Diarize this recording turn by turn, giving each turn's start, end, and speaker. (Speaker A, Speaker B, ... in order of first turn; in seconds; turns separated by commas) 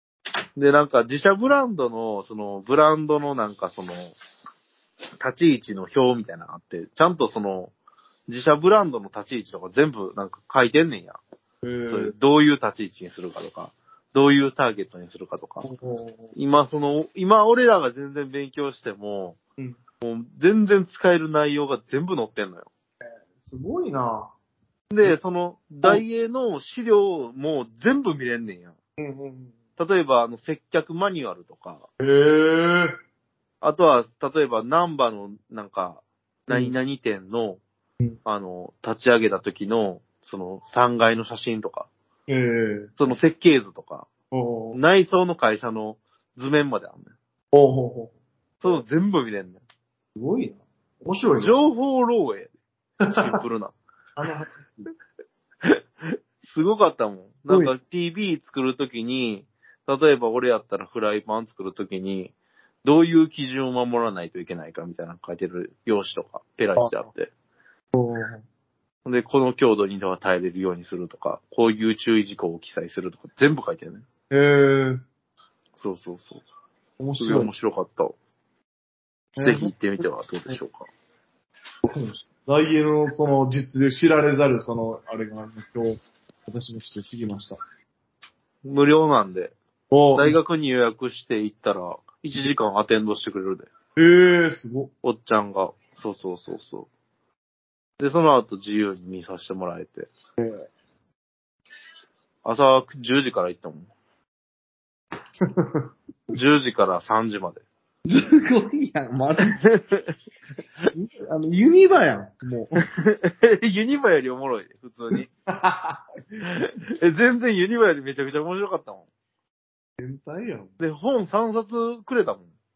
Speaker A: 0.6-4.1, Speaker A: 5.2-7.7, Speaker A: 8.3-11.2, Speaker B: 11.6-12.1, Speaker A: 11.9-15.7, Speaker B: 15.6-16.3, Speaker A: 16.3-19.4, Speaker A: 20.0-22.7, Speaker B: 23.4-24.3, Speaker A: 24.9-28.7, Speaker B: 29.0-29.5, Speaker A: 29.8-31.8, Speaker B: 32.0-33.0, Speaker A: 33.6-37.6, Speaker B: 36.5-36.7, Speaker A: 38.2-41.9, Speaker B: 42.3-42.9, Speaker A: 43.0-44.1, Speaker B: 44.3-44.8, Speaker A: 44.7-47.1, Speaker B: 47.5-48.1, Speaker A: 48.6-49.6, Speaker B: 50.1-51.5, Speaker A: 51.4-52.5, Speaker A: 53.1-53.8, Speaker B: 54.2-54.6, Speaker A: 56.4-67.3, Speaker B: 66.8-67.1, Speaker B: 67.9-68.4, Speaker A: 69.0-74.0, Speaker B: 74.3-75.0, Speaker A: 75.8-76.4, Speaker B: 77.0-77.5, Speaker A: 77.2-78.2, Speaker B: 79.3-79.7, Speaker A: 79.4-80.9, Speaker B: 81.8-87.6, Speaker A: 88.6-89.5, Speaker B: 89.9-90.4, Speaker A: 90.1-93.7, Speaker B: 94.0-94.9, Speaker A: 95.0-96.9, Speaker A: 98.0-100.1, Speaker B: 100.4-100.7, Speaker A: 102.4-103.9, Speaker B: 105.4-105.9, Speaker A: 106.3-107.6, Speaker B: 108.0-109.6, Speaker A: 109.5-110.1, Speaker B: 110.9-112.8, Speaker A: 112.8-115.3, Speaker B: 115.1-116.0, Speaker A: 116.4-119.1, Speaker B: 120.0-120.7, Speaker A: 120.8-122.5